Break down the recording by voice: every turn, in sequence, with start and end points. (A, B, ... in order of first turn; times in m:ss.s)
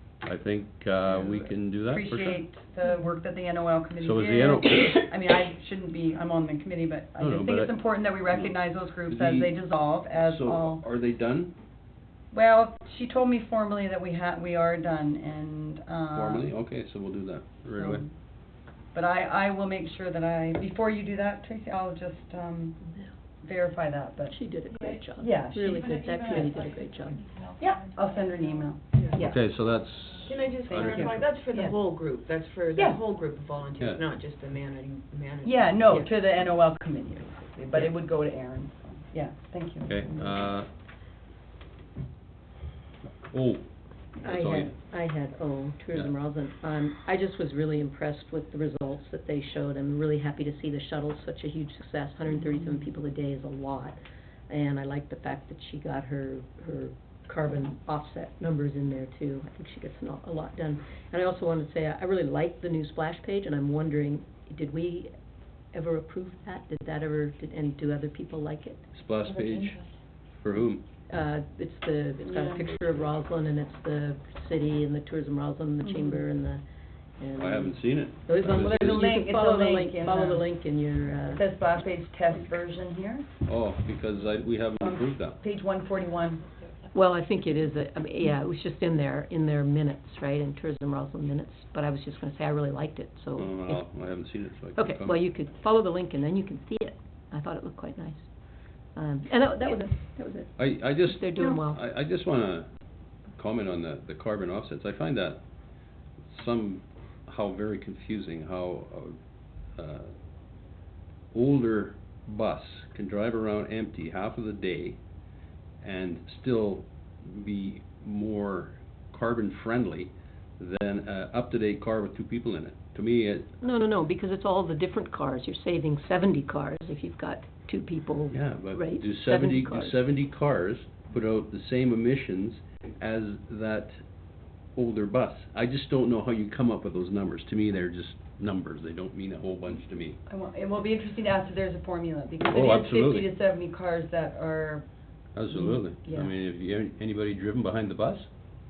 0:00.2-0:02.4 A
0:01.2-0:10.8 B
0:04.0-0:05.1 A
0:07.2-0:07.8 A
0:08.3-0:09.6 A
0:10.2-0:11.5 A
0:12.3-0:16.5 B
0:16.1-0:18.0 A
0:17.8-0:18.1 B
0:18.9-0:22.8 B
0:23.4-0:24.4 B
0:24.2-0:27.2 C
0:25.2-0:26.7 B
0:27.6-0:29.4 B
0:29.2-0:31.3 A
0:30.3-0:35.7 D
0:30.6-0:31.8 B
0:32.8-0:33.0 B
0:33.8-0:34.0 A
0:35.4-0:40.4 B
0:39.9-0:40.7 A
0:43.3-0:43.6 A
0:44.2-0:44.8 A
0:44.2-0:54.0 C
0:54.5-1:05.1 C
1:05.7-1:08.9 C
1:08.9-1:09.8 A
1:10.4-1:10.8 A
1:11.1-1:16.6 C
1:12.6-1:12.9 A
1:15.8-1:16.3 B
1:17.2-1:21.4 C
1:17.4-1:19.0 A
1:18.6-1:20.5 B
1:21.3-1:23.3 B
1:23.5-1:25.4 A
1:24.8-1:26.4 B
1:26.9-1:34.0 C
1:33.4-1:35.2 A
1:34.8-1:38.3 C
1:39.0-1:41.8 C
1:40.6-1:42.7 A
1:43.4-1:45.4 A
1:46.2-1:49.2 A
1:49.8-1:50.1 A
1:51.3-1:55.0 A
1:55.8-2:03.5 A
2:03.6-2:10.0 C
2:08.3-2:14.0 A
2:14.8-2:20.2 A
2:20.3-2:24.9 B
2:22.5-2:23.3 A
2:25.4-2:28.3 A
2:26.0-2:26.3 B